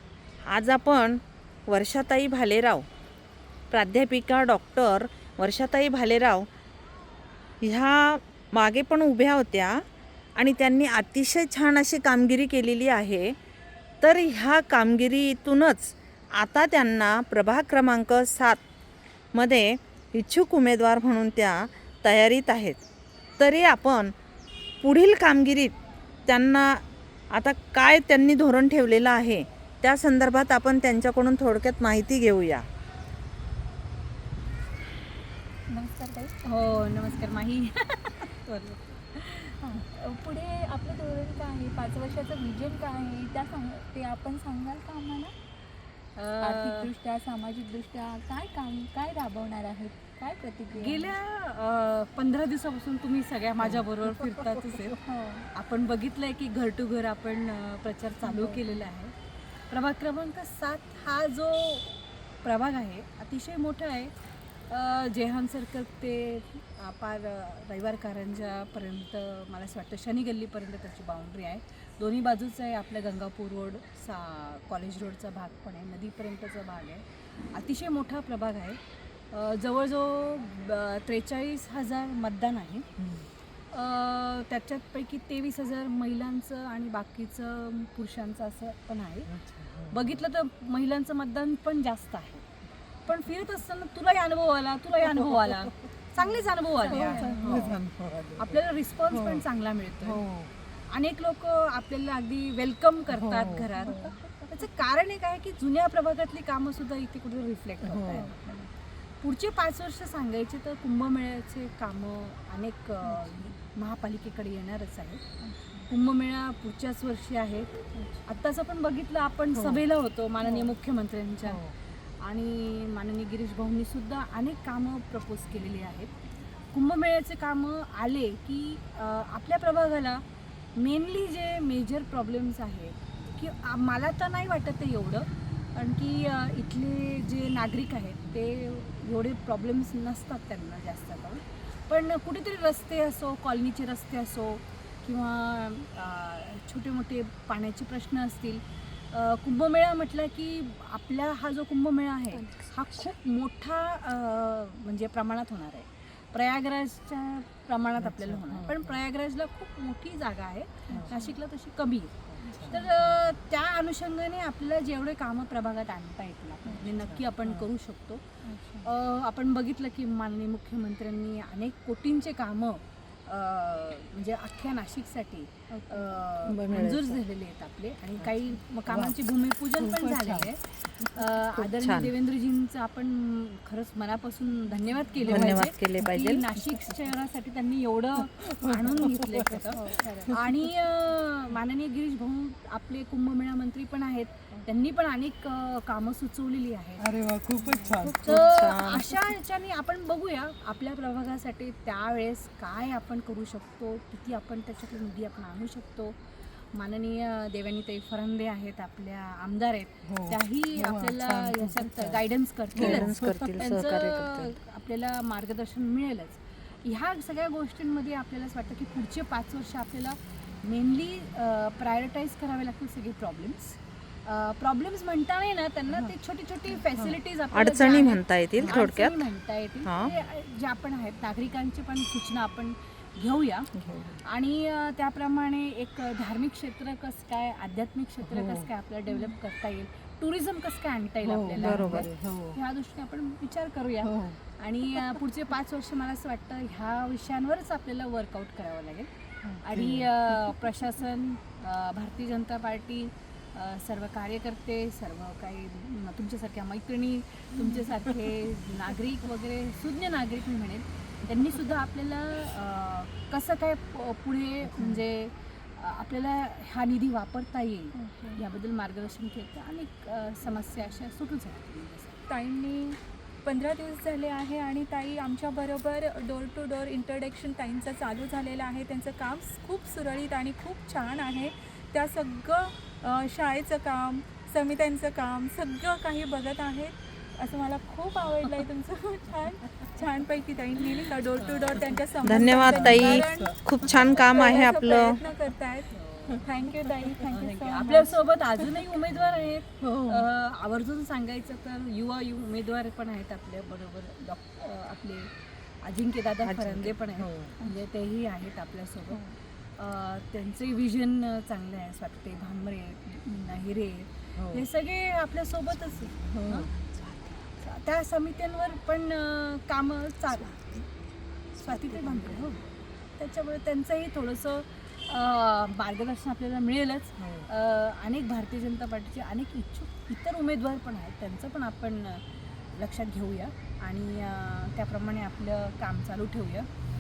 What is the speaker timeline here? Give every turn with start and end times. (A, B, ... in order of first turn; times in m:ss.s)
0:00.5-0:02.8 A
0:03.7-0:06.5 A
0:07.6-0:13.4 A
0:14.0-0:18.6 A
0:19.3-0:22.8 A
0:23.4-0:24.1 A
0:24.8-0:25.7 A
0:26.3-0:32.7 A
0:35.7-0:36.8 B
0:36.5-0:39.5 C
0:39.4-0:45.3 B
0:46.2-0:46.9 C
0:46.4-0:51.2 B
0:50.7-0:55.0 C
0:55.0-0:55.5 B
0:55.5-1:22.9 C
0:58.2-0:58.9 B
1:23.0-1:23.3 D
1:23.7-1:29.3 C
1:29.3-1:30.2 D
1:29.9-1:32.5 C
1:33.1-1:37.8 C
1:36.2-1:37.7 B
1:36.9-1:39.4 D
1:38.4-1:40.2 C
1:40.0-1:40.5 D
1:40.9-1:48.4 C
1:43.1-1:44.1 D
1:43.8-1:44.2 B
1:47.8-1:48.4 D
1:48.0-1:48.7 B
1:49.2-1:55.2 C
1:53.0-1:53.5 B
1:55.4-1:55.9 B
1:55.8-2:01.6 C
1:58.0-1:58.2 B
1:59.6-1:59.8 D
2:00.4-2:00.7 B
2:01.5-2:01.8 D
2:02.2-2:06.1 C
2:06.7-2:10.2 C
2:10.8-2:48.2 C
2:38.0-2:39.0 D
2:40.9-2:41.3 B
2:42.3-2:43.3 D
2:42.5-2:42.9 B
2:46.7-2:47.0 B
2:47.0-2:47.6 D
2:48.4-2:48.9 B
2:48.8-3:17.1 C
2:55.7-2:56.2 B
2:56.5-2:57.2 A
2:58.9-2:59.2 D
2:59.8-3:01.7 D
3:01.8-3:02.1 A
3:05.3-3:06.4 A
3:05.3-3:05.6 D
3:06.6-3:07.0 D
3:08.2-3:10.5 D
3:09.7-3:10.3 B
3:17.0-3:18.4 D
3:17.6-3:18.0 B
3:17.9-3:53.7 C
3:18.3-3:19.0 A
3:19.0-3:19.2 D
3:30.0-3:32.2 D
3:32.7-3:33.7 D
3:32.8-3:34.5 A
3:46.7-3:47.2 D
3:47.5-3:49.3 A
3:49.8-3:50.1 A
3:53.8-3:54.2 A
3:54.2-4:32.2 C
3:58.2-3:58.7 D
3:59.1-3:59.4 B
4:01.3-4:02.6 D
4:01.6-4:02.1 A
4:04.0-4:04.4 D
4:09.4-4:10.6 D
4:27.9-4:28.4 B
4:32.3-4:53.5 B
4:51.0-4:54.6 D
4:52.2-4:55.2 A
4:52.9-4:53.4 C
4:54.1-4:58.2 B
4:55.9-4:56.4 C
4:56.3-4:57.3 D
4:57.3-5:16.7 C
4:59.2-5:00.3 D
5:06.4-5:07.0 A
5:07.2-5:07.6 D
5:14.4-5:14.7 D
5:16.2-5:16.9 D
5:17.6-5:20.9 C
5:21.6-5:36.7 C
5:21.6-5:22.4 A
5:27.2-5:27.5 D